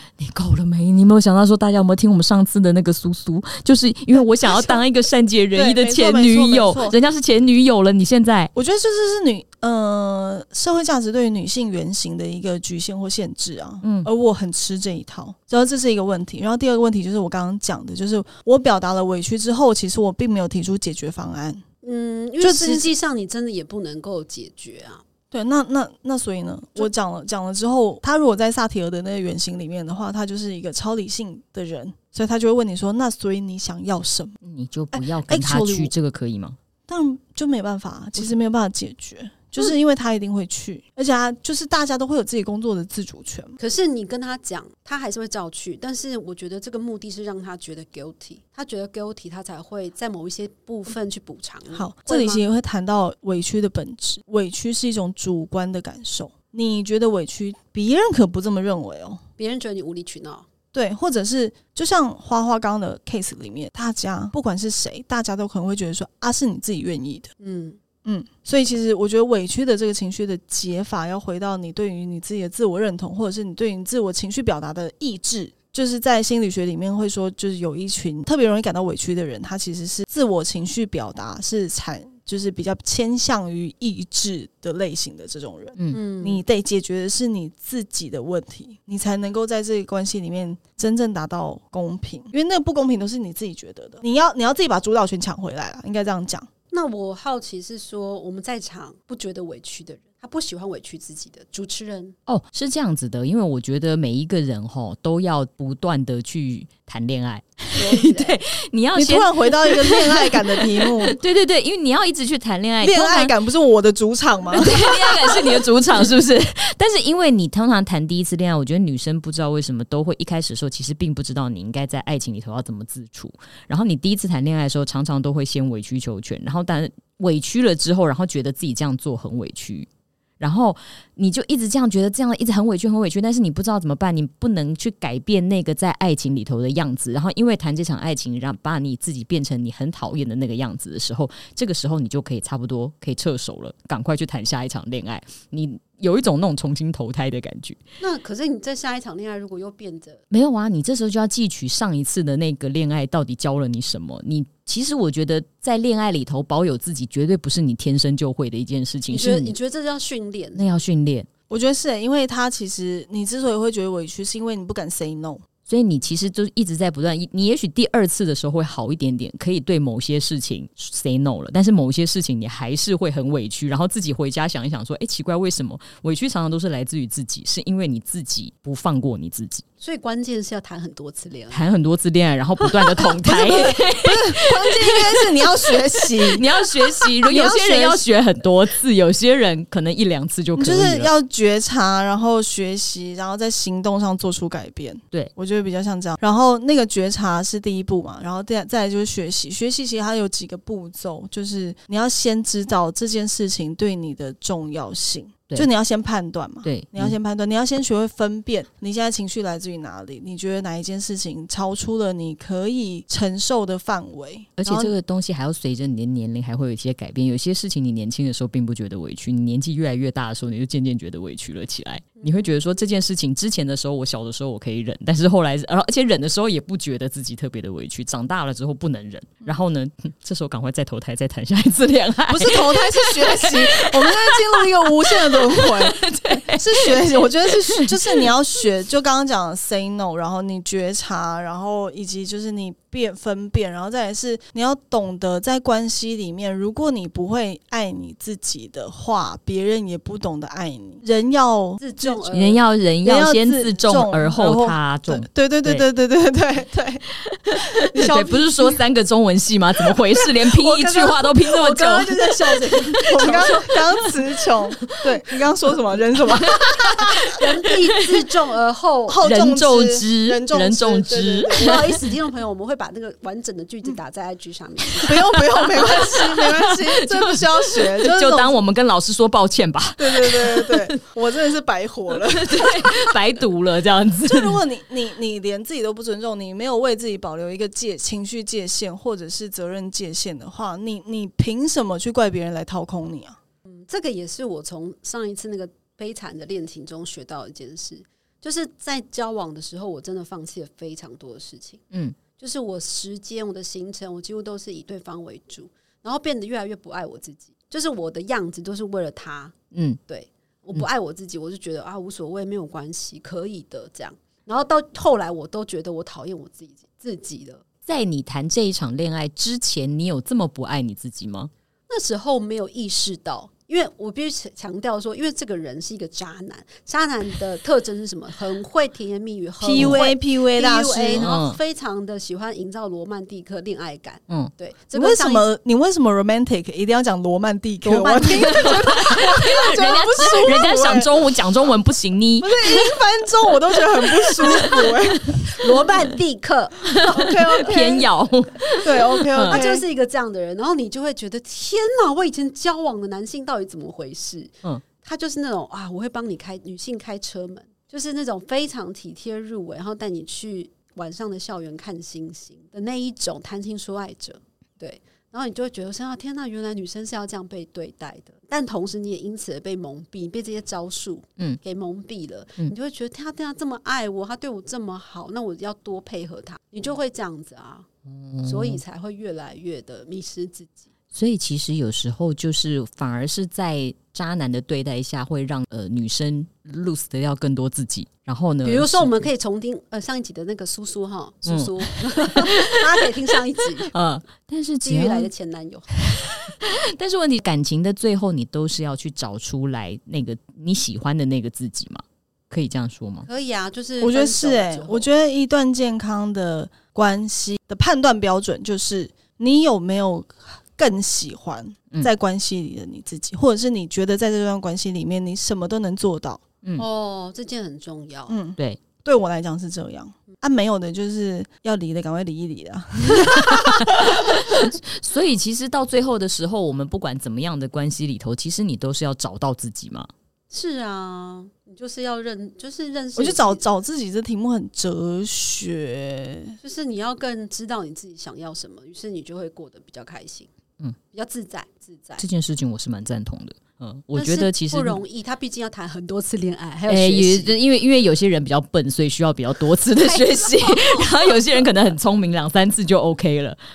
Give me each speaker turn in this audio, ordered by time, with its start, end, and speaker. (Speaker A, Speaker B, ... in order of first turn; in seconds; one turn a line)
Speaker A: 0.2-8.5
Speaker B: 5.5-7.0
Speaker B: 8.6-21.6
Speaker A: 13.8-14.1
Speaker C: 21.8-25.0
Speaker B: 22.4-22.9
Speaker B: 25.3-34.4
Speaker A: 34.4-36.6
Speaker B: 34.9-35.9
Speaker B: 36.9-43.5
Speaker C: 43.6-52.4
Speaker B: 51.7-59.2
Speaker C: 59.4-60.5
Speaker B: 60.7-67.3
Speaker C: 67.4-67.8
Speaker B: 68.0-96.5
Speaker C: 85.9-86.4
Speaker C: 96.7-102.2
Speaker A: 102.3-113.3
Speaker C: 107.7-108.4
Speaker B: 109.0-111.2
Speaker B: 112.8-115.5
Speaker A: 114.5-129.9
Speaker A: 130.4-147.8
Speaker C: 148.0-150.2
Speaker A: 150.3-159.6
Speaker C: 159.1-160.7
Speaker A: 160.6-161.3
Speaker B: 161.5-165.4
Speaker A: 165.7-179.6
Speaker C: 179.8-181.7
Speaker A: 181.5-191.1
Speaker B: 183.2-188.1
Speaker B: 190.6-214.9
Speaker A: 206.6-207.2
Speaker A: 214.6-238.3
Speaker C: 222.2-222.5
Speaker B: 232.3-252.3
Speaker C: 251.8-252.6
Speaker A: 252.3-255.8
Speaker B: 253.0-257.0
Speaker A: 257.2-263.5
Speaker B: 257.8-258.8
Speaker C: 260.7-263.7
Speaker B: 263.0-267.1
Speaker A: 266.5-268.0
Speaker C: 267.3-269.2
Speaker B: 269.1-271.9
Speaker A: 269.2-272.0
Speaker C: 271.5-275.2
Speaker A: 275.0-281.0
Speaker B: 275.0-278.6
Speaker B: 280.0-283.1
Speaker A: 282.2-284.6
Speaker B: 284.2-293.4
Speaker C: 293.7-301.8
Speaker C: 302.4-309.5
Speaker A: 309.7-310.0
Speaker C: 310.1-317.6
Speaker A: 317.9-321.5
Speaker C: 321.9-335.5
Speaker B: 329.6-331.3
Speaker A: 329.8-330.0
Speaker A: 331.2-331.6
Speaker B: 334.9-341.1
Speaker C: 337.8-338.8
Speaker A: 338.3-342.9
Speaker B: 342.4-345.5
Speaker A: 344.0-345.4
Speaker C: 345.5-347.7
Speaker A: 346.9-349.6
Speaker B: 347.1-348.1
Speaker B: 348.8-349.9
Speaker C: 349.5-377.9
Speaker A: 378.1-378.8
Speaker C: 378.4-380.9
Speaker A: 381.1-389.3
Speaker C: 388.6-393.9
Speaker A: 391.4-393.1
Speaker A: 393.9-395.3
Speaker C: 394.8-395.9
Speaker A: 396.0-403.3
Speaker C: 403.3-405.1
Speaker B: 404.0-416.4
Speaker C: 416.8-418.4
Speaker B: 418.3-424.6
Speaker A: 423.1-430.1
Speaker C: 430.5-433.6
Speaker B: 433.2-436.6
Speaker C: 436.6-440.5
Speaker C: 441.1-442.2
Speaker A: 442.2-445.0
Speaker C: 444.1-447.6
Speaker A: 446.9-453.6
Speaker C: 450.0-451.1